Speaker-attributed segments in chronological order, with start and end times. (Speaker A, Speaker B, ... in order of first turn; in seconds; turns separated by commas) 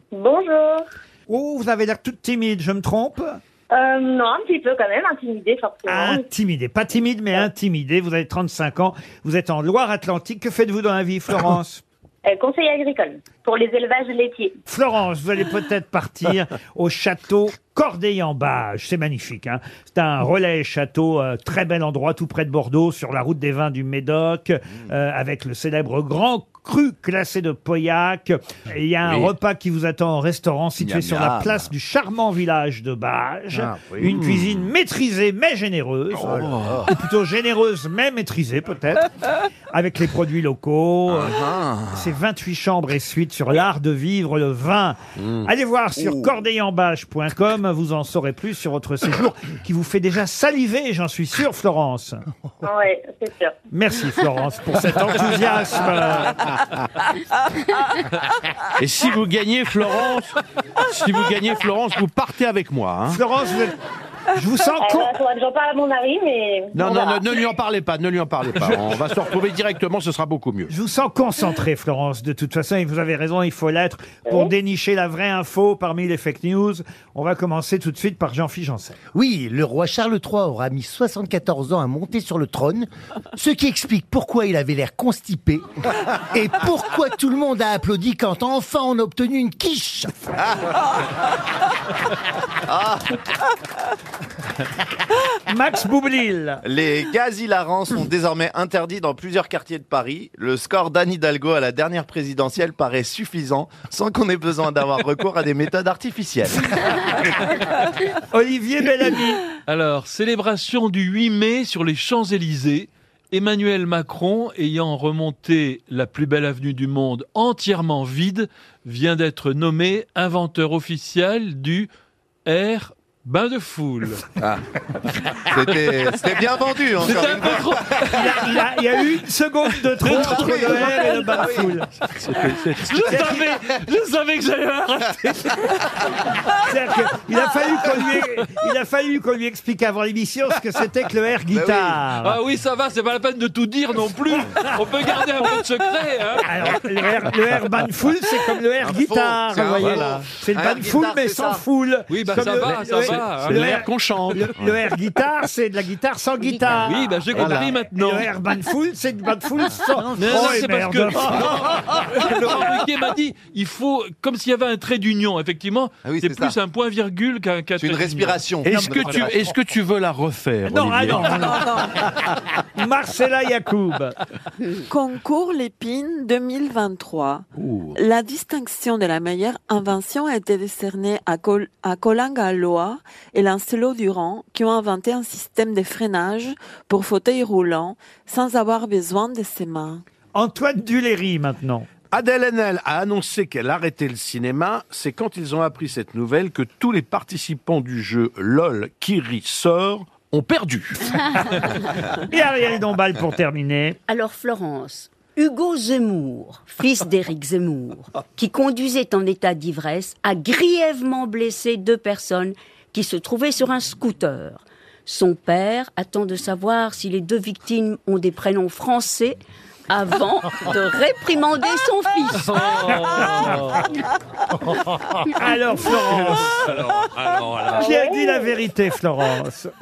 Speaker A: 0.1-0.8, Speaker B: 1.3-3.4, Speaker A: 3.7-6.3, Speaker B: 5.9-11.8, Speaker A: 12.2-14.6, Speaker B: 14.7-39.1, Speaker C: 30.8-31.5, Speaker D: 33.5-34.5, Speaker C: 36.2-36.8, Speaker B: 39.7-41.4, Speaker C: 41.1-41.8, Speaker B: 41.9-52.2, Speaker A: 52.6-53.6, Speaker B: 53.7-56.5, Speaker D: 58.8-63.2, Speaker B: 63.1-63.8, Speaker B: 64.3-65.2, Speaker A: 64.8-67.3, Speaker D: 66.7-70.7, Speaker B: 70.7-79.0, Speaker E: 79.1-85.7, Speaker E: 86.3-90.1, Speaker C: 92.7-93.1, Speaker B: 95.5-96.6, Speaker C: 96.7-106.5, Speaker B: 108.2-109.5, Speaker F: 109.5-121.9, Speaker F: 122.5-124.4, Speaker C: 125.4-127.7, Speaker F: 127.0-128.6, Speaker B: 128.1-131.9, Speaker F: 129.9-131.2, Speaker D: 132.2-133.0, Speaker F: 132.8-136.6, Speaker B: 133.1-133.5, Speaker B: 136.7-142.4, Speaker C: 141.6-141.9, Speaker F: 142.1-146.6, Speaker B: 146.4-157.0, Speaker C: 148.9-149.9, Speaker D: 149.8-150.2, Speaker C: 150.7-150.9, Speaker F: 152.1-153.6, Speaker D: 152.7-154.6, Speaker G: 156.4-157.2, Speaker F: 156.8-158.3, Speaker D: 157.3-157.8, Speaker B: 157.9-162.0, Speaker F: 160.2-169.6, Speaker C: 166.1-166.5, Speaker C: 167.8-169.2, Speaker D: 168.6-171.6, Speaker B: 168.7-169.1, Speaker B: 170.7-171.7, Speaker H: 171.3-172.0, Speaker B: 172.6-174.2, Speaker H: 174.9-177.4, Speaker D: 177.6-178.0, Speaker H: 177.9-190.0, Speaker B: 190.3-191.9, Speaker D: 192.1-201.2, Speaker B: 201.5-204.0, Speaker G: 204.1-222.6, Speaker F: 222.3-223.9, Speaker B: 225.3-226.6, Speaker F: 226.4-227.9, Speaker A: 227.7-228.6, Speaker B: 227.9-229.7